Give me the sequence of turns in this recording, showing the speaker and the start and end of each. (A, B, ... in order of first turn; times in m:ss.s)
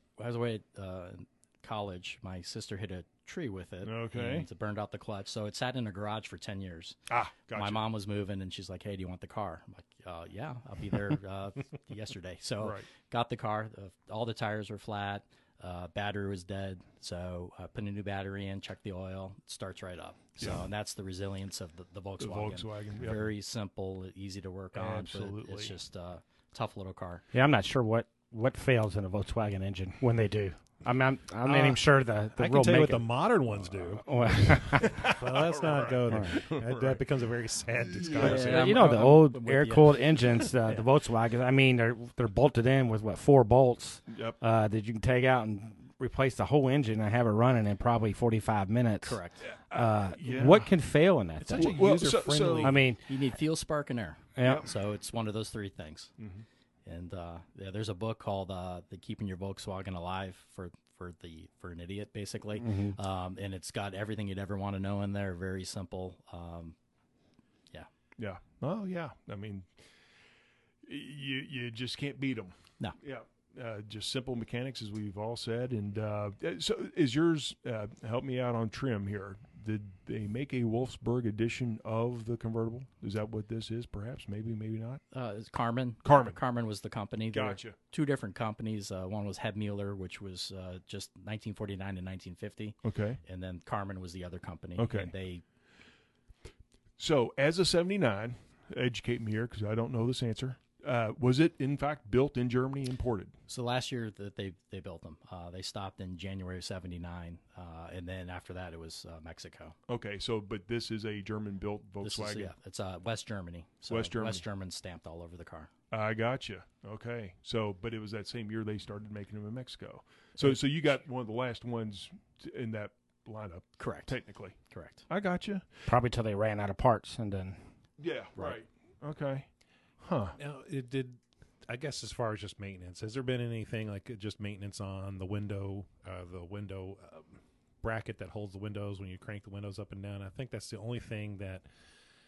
0:00.2-0:07.0 A
0:03.8-0:04.5 B
0:07.1-0:07.8 B
0:07.5-0:27.2 A
0:12.6-0:12.9 B
0:22.2-0:23.3 B
0:24.7-0:25.8 B
0:27.3-0:33.2 C
0:31.4-0:39.1 D
0:33.8-0:37.1 B
0:34.0-0:35.1 C
0:36.1-0:36.4 C
0:37.8-0:38.8 B
0:38.2-0:40.9 A
0:38.2-0:51.8 C
0:44.1-0:44.4 B
0:49.0-0:49.4 A
0:49.4-0:50.7 B
0:51.4-0:52.8 D
0:51.5-0:52.8 B
0:52.6-0:53.2 C
0:53.1-0:56.1 A
0:54.4-0:54.7 C
0:56.2-0:56.4 B
0:56.9-1:06.8 A
1:02.6-1:03.0 C
1:08.2-1:09.7 B
1:10.8-1:25.0 B
1:25.1-1:35.4 A
1:26.0-1:26.4 B
1:27.3-1:27.8 B
1:32.8-1:33.2 B
1:34.8-1:35.1 B
1:37.0-1:43.3 B
1:43.5-1:49.8 A
1:49.9-1:52.5 B
1:52.0-1:55.7 A
1:53.9-1:54.4 B
1:55.9-2:05.7 B
2:03.8-2:04.2 A
2:04.7-2:05.0 A
2:05.9-2:07.6 C
2:08.0-2:09.5 B
2:10.0-2:10.4 B
2:10.4-2:21.6 D